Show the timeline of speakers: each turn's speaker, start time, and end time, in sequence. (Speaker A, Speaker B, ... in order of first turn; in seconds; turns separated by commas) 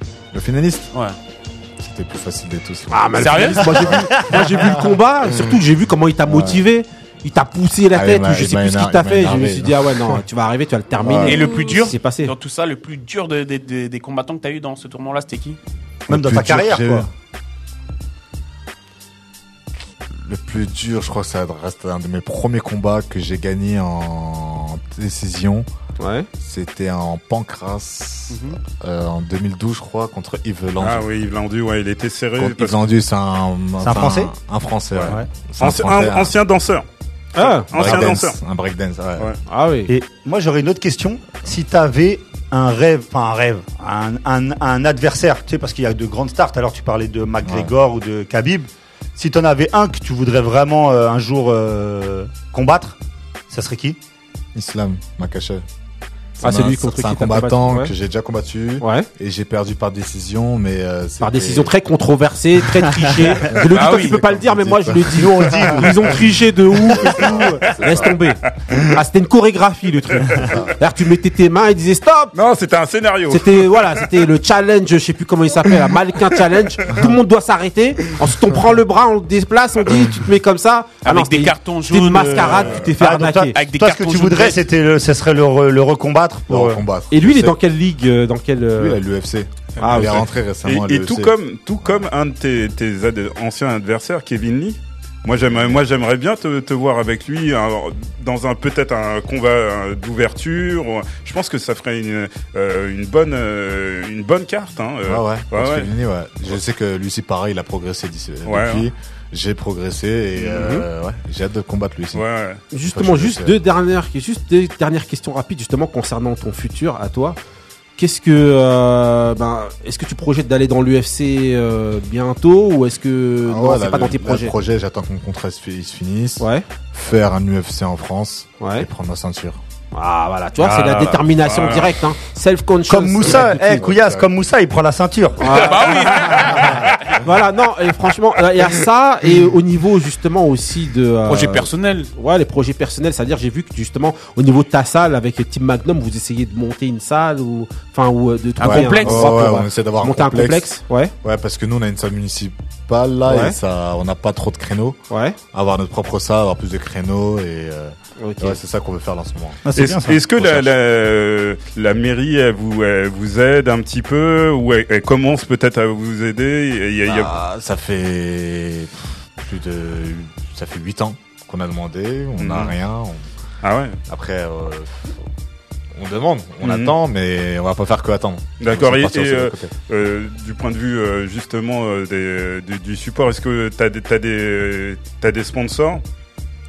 Speaker A: 0.3-0.9, Speaker A: 1.8-5.5, Speaker B: 2.9-12.3, Speaker C: 3.1-4.0, Speaker A: 6.3-6.6, Speaker A: 7.9-9.8, Speaker A: 11.0-11.4, Speaker C: 11.2-15.6, Speaker A: 16.1-17.1, Speaker D: 16.1-17.1, Speaker A: 20.2-25.7, Speaker B: 26.0-26.3, Speaker A: 26.4-31.1, Speaker C: 28.3-28.6, Speaker E: 30.8-32.8, Speaker A: 32.4-36.4, Speaker D: 33.8-34.3, Speaker E: 35.6-36.8, Speaker B: 37.4-38.1, Speaker E: 37.4-38.4, Speaker A: 37.7-39.3, Speaker B: 39.5-39.9, Speaker D: 39.9-53.0, Speaker A: 47.4-47.7, Speaker D: 53.5-54.0, Speaker A: 54.5-55.6, Speaker A: 56.4-61.7, Speaker B: 56.4-57.9, Speaker B: 58.8-59.1, Speaker B: 61.2-72.3, Speaker A: 63.5-66.1, Speaker C: 63.7-64.2, Speaker D: 65.1-66.1, Speaker A: 66.9-68.1, Speaker E: 72.3-74.0, Speaker B: 73.3-83.6, Speaker C: 81.0-82.9, Speaker D: 83.0-86.8, Speaker C: 83.5-84.6, Speaker A: 86.5-87.6, Speaker B: 87.1-89.0, Speaker A: 88.8-92.0, Speaker B: 89.8-90.2, Speaker E: 90.6-105.9, Speaker A: 95.5-95.8, Speaker A: 105.0-112.2, Speaker E: 108.5-108.9, Speaker B: 110.5-110.8, Speaker E: 112.1-112.6, Speaker B: 112.7-117.4, Speaker A: 112.8-113.6, Speaker B: 118.0-124.5, Speaker A: 123.5-129.6, Speaker B: 126.4-126.6, Speaker B: 128.6-128.9, Speaker B: 129.9-133.9, Speaker D: 130.6-131.1, Speaker E: 131.5-131.9, Speaker D: 132.9-135.8, Speaker A: 133.2-134.3, Speaker B: 135.4-151.1, Speaker C: 135.4-136.8, Speaker C: 141.3-142.1, Speaker C: 148.6-149.4, Speaker A: 148.6-155.0, Speaker B: 153.2-153.6, Speaker B: 155.1-155.4, Speaker A: 155.5-159.6, Speaker B: 158.2-158.6, Speaker D: 159.6-160.2, Speaker E: 159.7-167.3, Speaker A: 160.3-160.8, Speaker A: 167.0-173.2, Speaker E: 172.4-172.7, Speaker E: 173.6-174.0, Speaker A: 174.1-175.2, Speaker A: 175.9-179.7, Speaker E: 176.6-176.9, Speaker E: 178.6-186.0